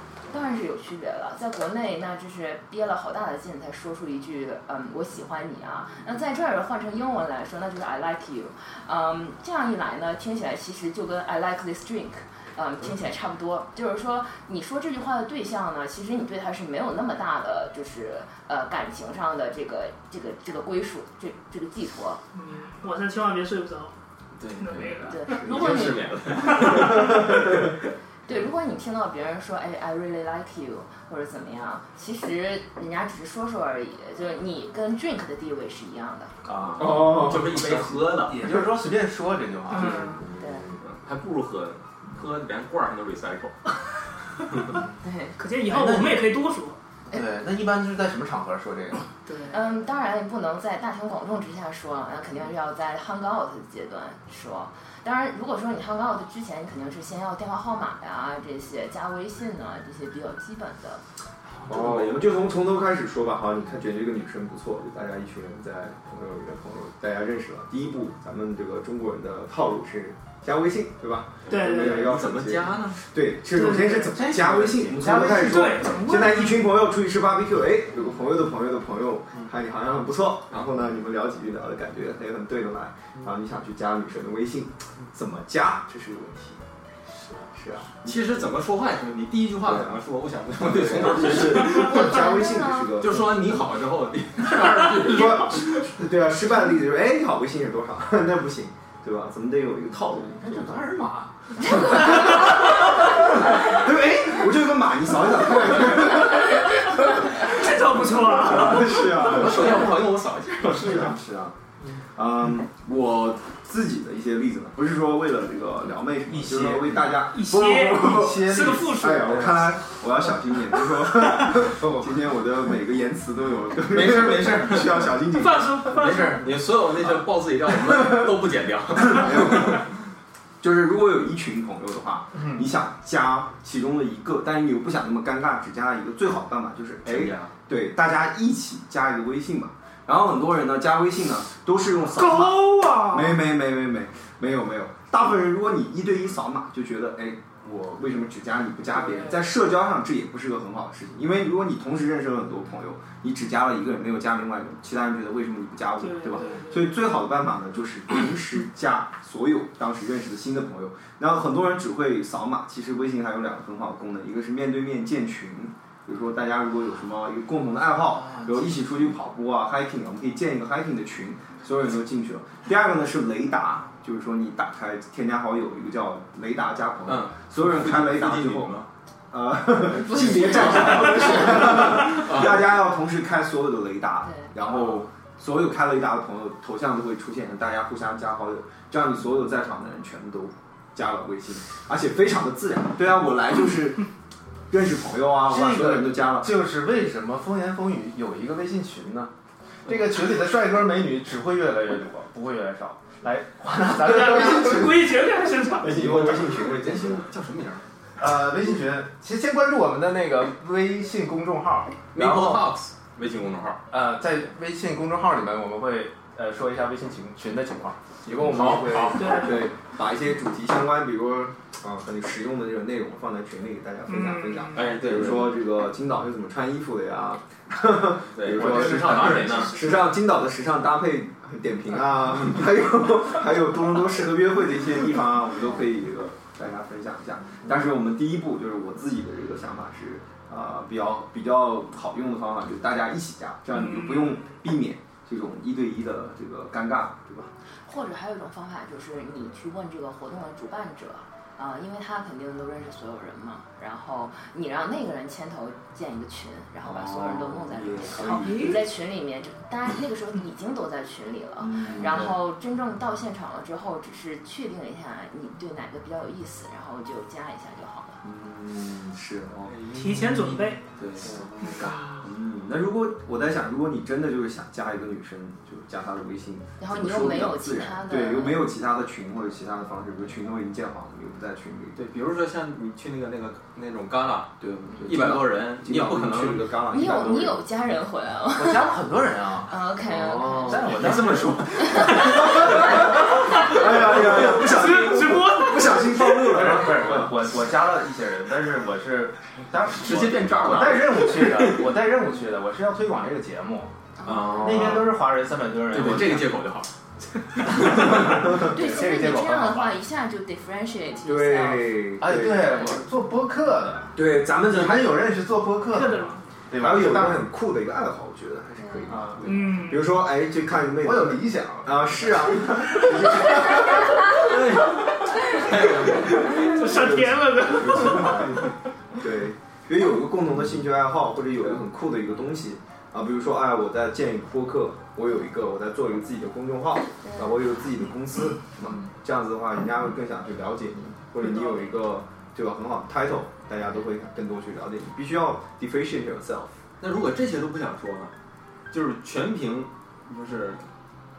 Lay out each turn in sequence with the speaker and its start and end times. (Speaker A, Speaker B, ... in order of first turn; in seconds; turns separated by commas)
Speaker A: 0.3-22.2, Speaker B: 22.3-23.9, Speaker C: 24.4-27.8, Speaker B: 24.6-25.5, Speaker A: 25.1-27.0, Speaker B: 26.4-26.8, Speaker A: 28.3-36.4, Speaker D: 36.4-40.2, Speaker C: 36.8-38.4, Speaker E: 36.8-37.4, Speaker B: 39.7-40.2, Speaker E: 40.1-40.8, Speaker A: 40.4-40.7, Speaker C: 40.9-43.7, Speaker A: 45.0-45.4, Speaker B: 45.4-46.8, Speaker D: 45.6-46.3, Speaker D: 47.1-49.1, Speaker B: 49.2-49.6, Speaker A: 49.5-61.0, Speaker C: 61.6-62.5, Speaker E: 61.7-86.6, Speaker B: 71.5-72.1, Speaker C: 71.7-73.0, Speaker B: 73.5-74.2, Speaker D: 73.9-75.8, Speaker B: 75.1-76.7, Speaker E: 87.5-88.4, Speaker C: 88.0-92.3, Speaker E: 89.6-90.0, Speaker E: 90.6-93.7, Speaker A: 91.5-92.9, Speaker C: 93.0-95.9, Speaker E: 94.8-100.7, Speaker D: 100.2-101.5, Speaker E: 101.7-110.0, Speaker B: 107.2-109.2, Speaker C: 109.1-111.2, Speaker E: 110.6-111.6, Speaker E: 112.1-126.3, Speaker D: 116.3-117.2, Speaker B: 117.3-119.3, Speaker D: 118.0-119.7, Speaker D: 121.6-122.1, Speaker D: 123.9-125.3, Speaker C: 124.2-124.8, Speaker B: 125.3-126.4, Speaker C: 125.9-129.8, Speaker E: 129.1-129.8, Speaker E: 130.6-194.1, Speaker C: 137.1-137.5, Speaker B: 142.1-143.4, Speaker B: 148.9-149.4, Speaker B: 156.0-156.9, Speaker D: 168.1-169.1, Speaker C: 177.1-178.9, Speaker A: 179.9-181.8, Speaker C: 180.1-182.7, Speaker A: 184.2-184.5, Speaker C: 184.6-184.9, Speaker E: 194.7-196.5, Speaker D: 195.4-199.3, Speaker D: 199.8-205.1, Speaker B: 204.0-206.0, Speaker E: 204.4-204.9, Speaker E: 205.8-207.2, Speaker D: 205.8-206.5, Speaker C: 206.6-207.8, Speaker D: 208.2-212.7, Speaker C: 212.1-213.8, Speaker D: 213.9-219.6, Speaker E: 218.3-247.5, Speaker C: 218.4-219.3, Speaker B: 219.2-219.7, Speaker B: 224.1-225.0, Speaker C: 224.7-225.6, Speaker D: 225.0-225.5, Speaker C: 228.3-229.8, Speaker D: 228.5-229.9, Speaker B: 229.7-230.0, Speaker B: 243.7-244.3, Speaker A: 247.8-268.2, Speaker E: 256.8-258.8, Speaker B: 258.2-258.8, Speaker E: 261.6-262.4, Speaker E: 268.2-269.8, Speaker C: 269.7-272.2, Speaker B: 269.9-270.8, Speaker E: 271.0-282.0, Speaker D: 271.3-271.9, Speaker A: 276.8-278.7, Speaker C: 281.9-286.7, Speaker E: 284.6-287.7, Speaker A: 286.9-288.9, Speaker D: 288.6-291.6, Speaker A: 289.7-290.9, Speaker C: 290.7-293.1, Speaker E: 292.2-297.4, Speaker B: 293.4-296.6, Speaker D: 296.4-303.9, Speaker C: 299.9-301.9, Speaker A: 304.2-305.0, Speaker C: 304.2-305.1, Speaker E: 304.4-304.9, Speaker D: 304.6-306.5, Speaker C: 305.9-306.9, Speaker C: 307.5-308.5, Speaker D: 307.7-309.9, Speaker A: 308.4-312.2, Speaker E: 311.2-312.9, Speaker D: 312.2-317.5, Speaker E: 314.1-315.3, Speaker B: 315.9-316.4, Speaker E: 316.7-324.8, Speaker A: 318.8-319.1, Speaker D: 319.1-319.6, Speaker B: 319.4-320.1, Speaker D: 320.9-323.4, Speaker C: 324.4-326.8, Speaker E: 325.6-346.7, Speaker B: 326.3-328.6, Speaker A: 337.2-337.5, Speaker C: 347.0-348.3, Speaker C: 348.9-350.8